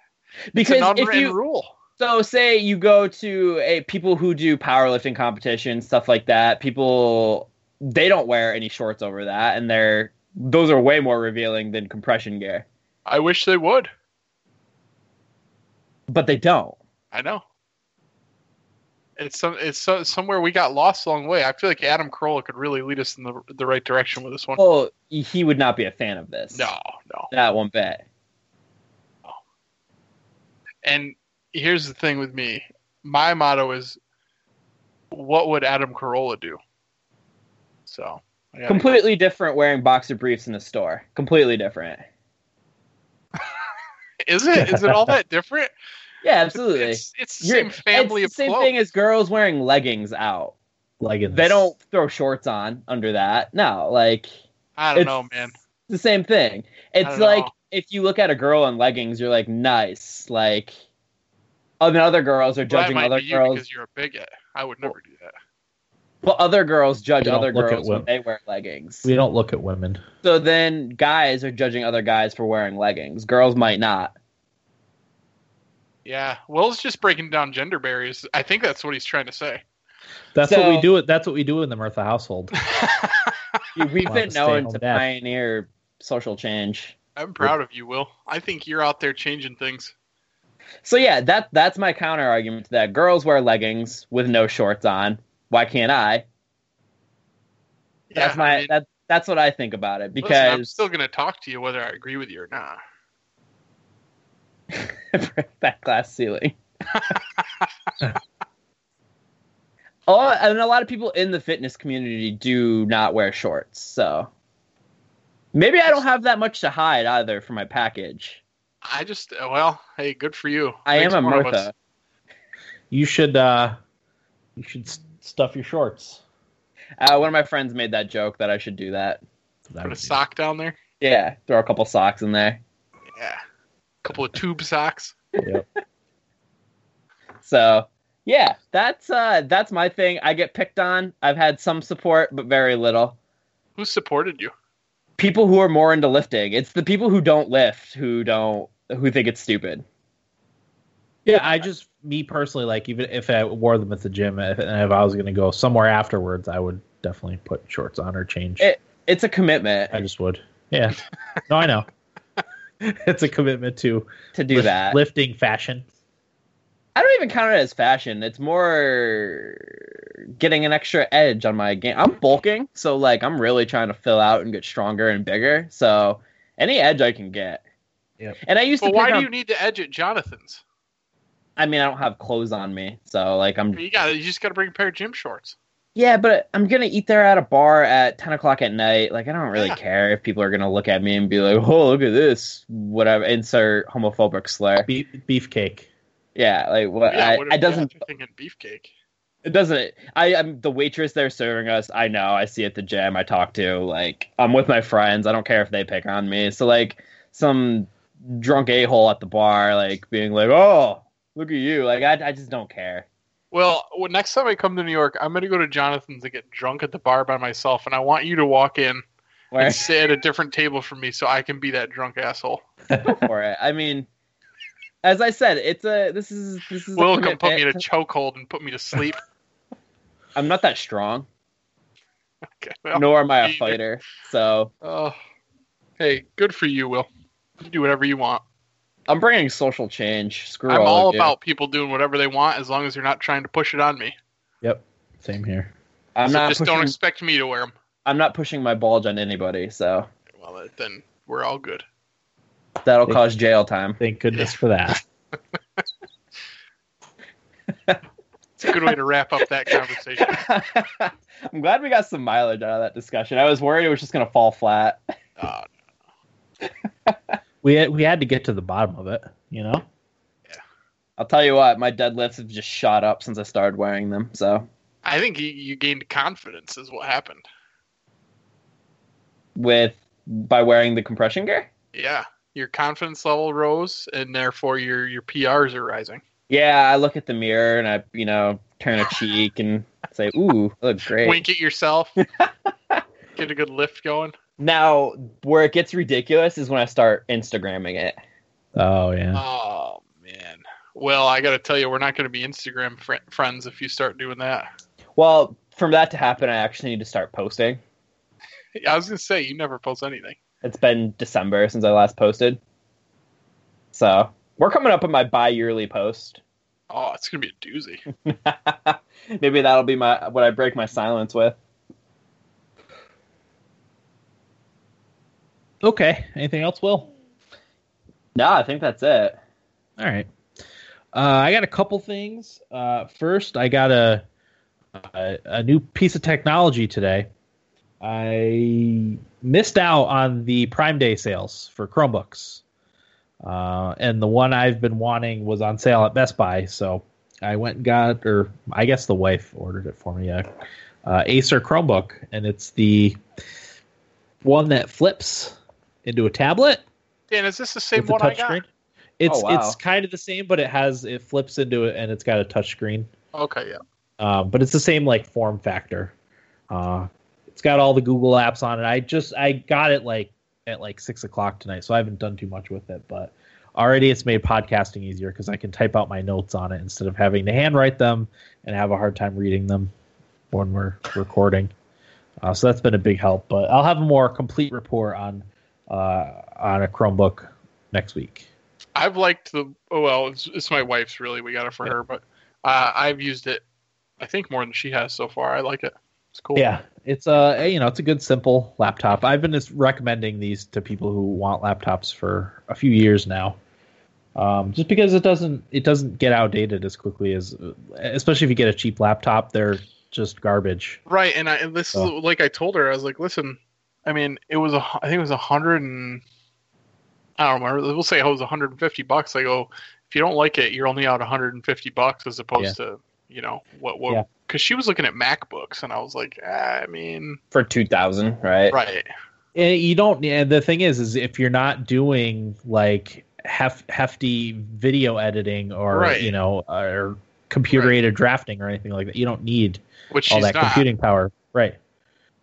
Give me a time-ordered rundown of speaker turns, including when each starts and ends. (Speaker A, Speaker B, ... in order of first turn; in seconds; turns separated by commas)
Speaker A: 0.5-1.4, Speaker B: 0.6-1.7, Speaker A: 2.0-12.7, Speaker B: 13.1-13.9, Speaker A: 16.1-16.8, Speaker B: 17.1-17.4, Speaker B: 19.2-24.6, Speaker A: 24.6-26.7, Speaker B: 26.5-27.3, Speaker A: 27.3-28.0, Speaker B: 30.8-34.0, Speaker B: 35.1-36.6, Speaker B: 37.9-38.9, Speaker A: 38.7-42.0, Speaker B: 44.2-45.7, Speaker C: 44.6-45.1, Speaker A: 46.2-50.5, Speaker B: 46.5-48.7, Speaker C: 51.0-51.7, Speaker A: 51.3-54.3, Speaker B: 54.8-55.5, Speaker A: 55.0-55.3, Speaker A: 55.9-60.8, Speaker B: 57.0-57.5, Speaker A: 61.8-63.6, Speaker B: 62.7-65.3, Speaker A: 66.2-69.1, Speaker C: 67.2-68.1, Speaker C: 69.0-70.0, Speaker A: 70.2-74.1, Speaker B: 76.0-79.6, Speaker C: 80.3-82.5, Speaker A: 80.4-80.9, Speaker B: 82.8-83.3, Speaker A: 83.8-87.0, Speaker C: 84.0-85.0, Speaker B: 87.2-89.9, Speaker A: 90.8-96.3, Speaker B: 98.1-98.7, Speaker A: 98.2-100.8, Speaker B: 100.2-102.8, Speaker A: 104.7-106.6, Speaker A: 110.1-114.3, Speaker A: 115.5-118.4, Speaker B: 118.8-121.7, Speaker A: 120.9-121.7, Speaker C: 122.9-123.8, Speaker C: 124.6-126.2, Speaker A: 127.0-129.2, Speaker C: 129.7-130.2, Speaker B: 129.8-130.8, Speaker A: 131.0-132.6, Speaker B: 133.2-133.4, Speaker B: 134.0-135.2, Speaker A: 137.4-143.2, Speaker B: 143.8-144.5, Speaker A: 145.2-149.8, Speaker C: 151.2-158.7, Speaker A: 158.6-160.0, Speaker C: 159.9-161.9, Speaker C: 162.8-165.8, Speaker A: 164.3-165.0, Speaker A: 167.0-177.6, Speaker A: 178.4-179.3, Speaker B: 178.8-180.6, Speaker A: 181.6-183.8, Speaker B: 183.7-185.6, Speaker A: 186.0-194.9, Speaker C: 194.9-195.9, Speaker A: 196.4-197.9, Speaker B: 197.1-198.9, Speaker A: 199.4-213.1, Speaker B: 213.5-219.0, Speaker A: 219.5-219.9, Speaker B: 219.6-222.6, Speaker C: 222.9-223.2, Speaker A: 223.0-224.1, Speaker A: 225.0-227.8, Speaker B: 226.9-229.2, Speaker A: 230.4-231.3, Speaker B: 232.6-233.8, Speaker A: 232.9-234.7, Speaker B: 234.8-235.2, Speaker B: 236.0-237.1, Speaker B: 237.6-238.4, Speaker A: 239.1-241.3, Speaker B: 240.7-244.2, Speaker C: 244.6-245.7, Speaker A: 246.2-246.9, Speaker B: 246.3-247.7, Speaker A: 248.1-250.1, Speaker B: 250.4-251.8, Speaker A: 252.8-254.0, Speaker C: 254.0-255.0, Speaker B: 258.6-260.4, Speaker A: 260.2-265.0, Speaker B: 265.4-265.7, Speaker C: 267.6-269.8, Speaker A: 271.2-274.7, Speaker B: 275.0-277.4, Speaker A: 279.6-281.7, Speaker B: 281.9-286.2, Speaker A: 286.5-291.4, Speaker B: 291.2-292.2, Speaker A: 292.2-293.0, Speaker B: 293.4-294.4, Speaker A: 294.6-298.2, Speaker C: 298.8-299.4, Speaker B: 299.3-304.7, Speaker A: 305.2-307.8, Speaker B: 308.8-310.4, Speaker A: 310.6-312.6, Speaker A: 313.9-316.4, Speaker B: 316.9-318.0, Speaker A: 318.3-321.6, Speaker C: 325.8-327.1, Speaker A: 328.4-329.4, Speaker C: 330.0-330.3, Speaker C: 331.1-334.2, Speaker C: 334.9-337.3, Speaker C: 338.0-342.6, Speaker C: 343.4-350.5, Speaker C: 351.1-353.2, Speaker C: 354.4-356.8, Speaker B: 357.3-358.6, Speaker C: 358.0-358.6, Speaker C: 359.2-363.1, Speaker A: 359.3-359.8, Speaker B: 363.4-363.8, Speaker C: 364.2-366.1, Speaker C: 366.7-379.9, Speaker C: 380.5-381.7, Speaker C: 382.4-388.5, Speaker B: 389.0-393.6, Speaker B: 394.2-396.6, Speaker C: 396.6-403.6, Speaker C: 404.4-411.0, Speaker B: 411.1-416.2, Speaker B: 417.4-427.4, Speaker A: 427.5-428.8, Speaker B: 428.7-429.1, Speaker C: 429.6-441.8, Speaker B: 435.9-436.3, Speaker B: 437.7-438.0, Speaker B: 440.1-440.9